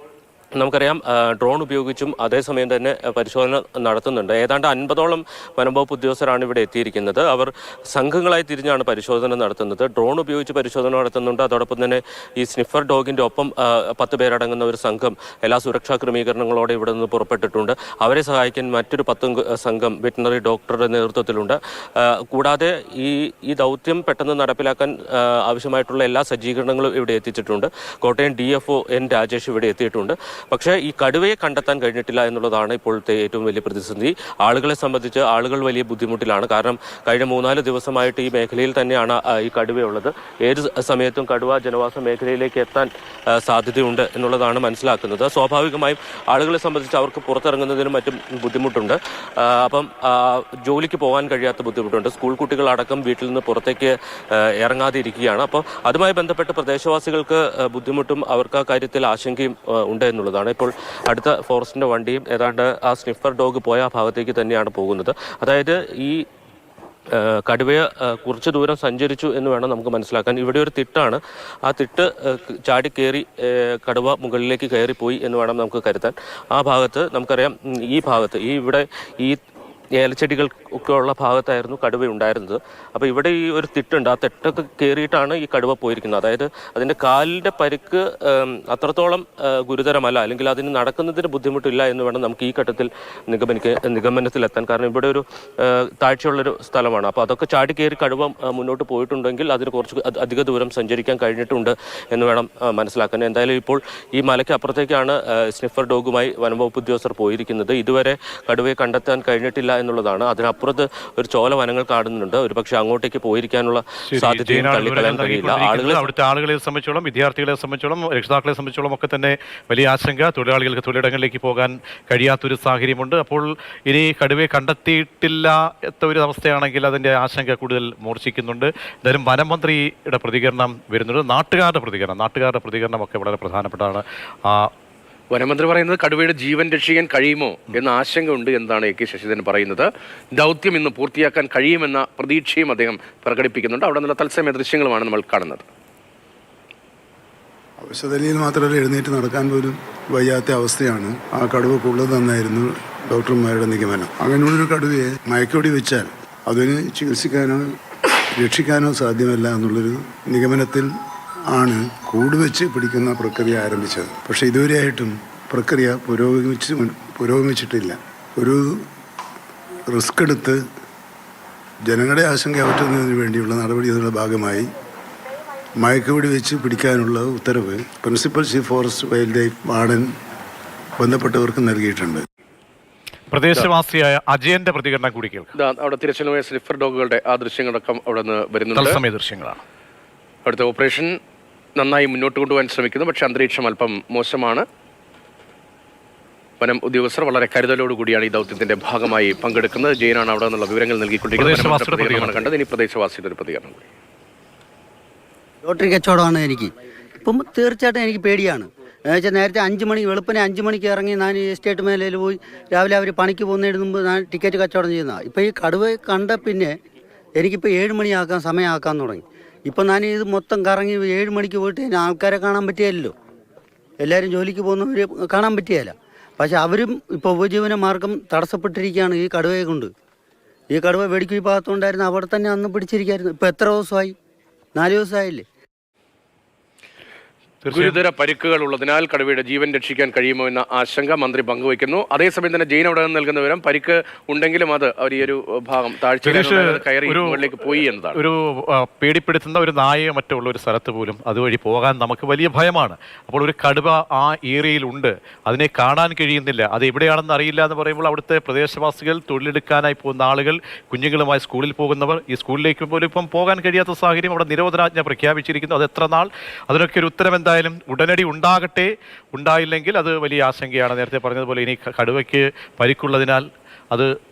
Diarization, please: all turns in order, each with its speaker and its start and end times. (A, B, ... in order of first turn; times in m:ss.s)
0:00.6-1:06.2 A
1:07.1-1:19.4 A
1:20.0-1:56.1 A
1:54.1-2:14.7 B
2:15.3-2:25.7 C
2:27.8-2:37.6 D
2:38.4-2:40.9 D
2:41.5-2:48.8 D
2:49.9-2:50.6 D
2:51.9-2:54.7 D
2:55.8-3:00.1 D
3:01.0-3:02.2 D
3:03.3-3:05.5 B
3:05.6-3:09.0 C
3:08.8-3:09.6 B
3:10.5-3:11.2 C
3:11.8-3:14.6 C
3:16.6-3:23.8 C
3:21.4-3:22.4 B
3:25.6-3:36.8 E
3:37.4-3:43.1 E
3:44.0-3:49.9 E
3:50.7-3:54.2 E
3:54.8-3:55.4 E
3:57.6-3:58.0 B
3:57.7-4:08.2 C
4:06.2-4:07.4 B
4:08.2-4:34.1 B